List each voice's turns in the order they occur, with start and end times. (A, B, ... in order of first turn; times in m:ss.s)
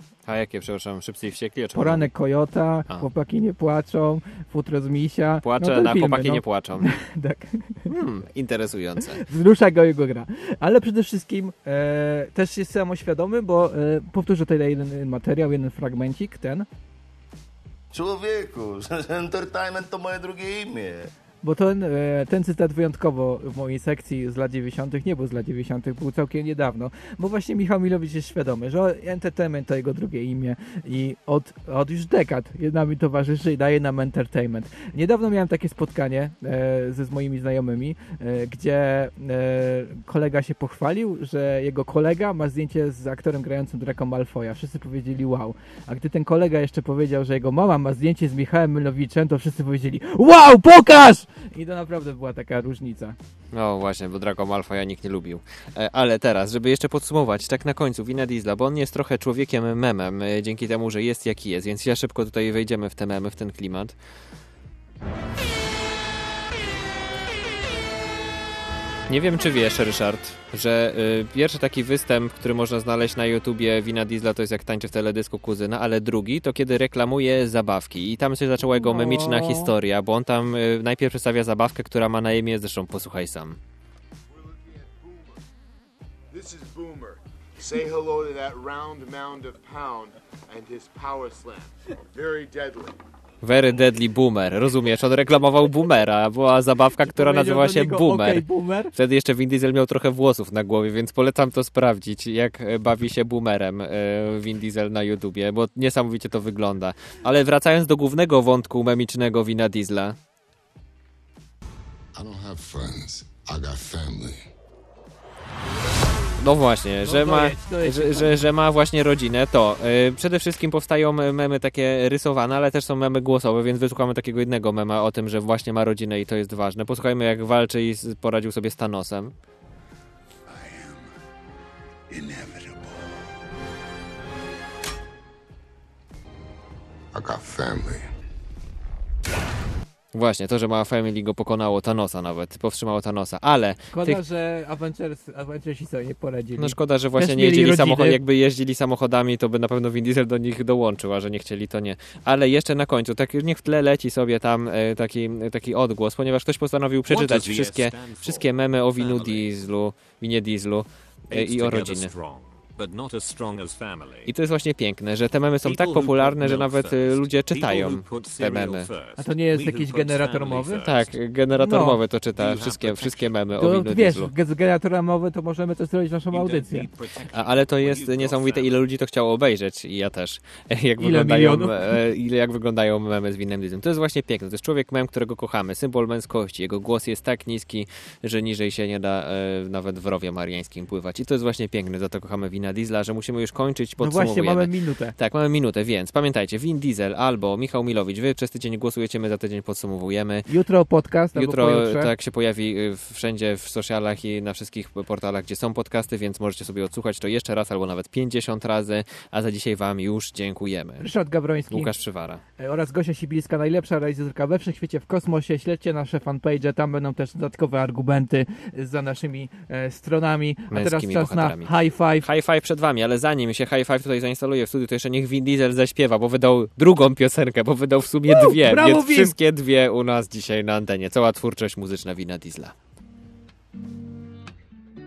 0:00.2-0:02.1 A
0:01.7-0:07.9 B
0:05.4-0:06.9 A
0:07.9-0:09.2 A
0:09.1-0:16.7 B
0:17.9-0:21.1 C
0:21.4-0:53.2 B
0:53.5-1:03.9 A
1:09.1-1:23.6 A
1:18.7-1:19.7 B
1:24.3-1:25.4 D
1:26.3-1:33.0 D
1:33.4-1:50.1 A
1:37.0-1:38.9 B
1:52.1-1:54.5 E
1:56.4-2:09.3 A
1:57.0-1:58.4 B
2:10.5-2:11.1 E
2:12.1-2:12.9 E
2:17.1-2:18.0 E
2:20.1-2:24.2 A
2:23.9-2:28.2 B
2:26.6-2:42.1 A
2:37.1-2:39.6 F
2:41.3-2:44.3 F
2:44.2-2:48.9 A
2:45.6-2:51.2 F
2:49.2-2:50.8 B
2:50.8-2:54.3 A
2:51.6-2:52.0 B
2:52.4-2:53.4 F
2:53.6-2:56.9 B
2:56.3-2:58.8 F
2:57.3-3:20.5 A
3:01.0-3:01.9 B
3:14.0-3:15.1 B
3:20.5-3:22.1 B
3:21.3-3:31.1 A
3:31.0-3:31.9 B
3:31.7-3:32.4 A
3:32.6-3:42.2 B
3:40.7-3:52.7 A
3:48.3-3:49.3 B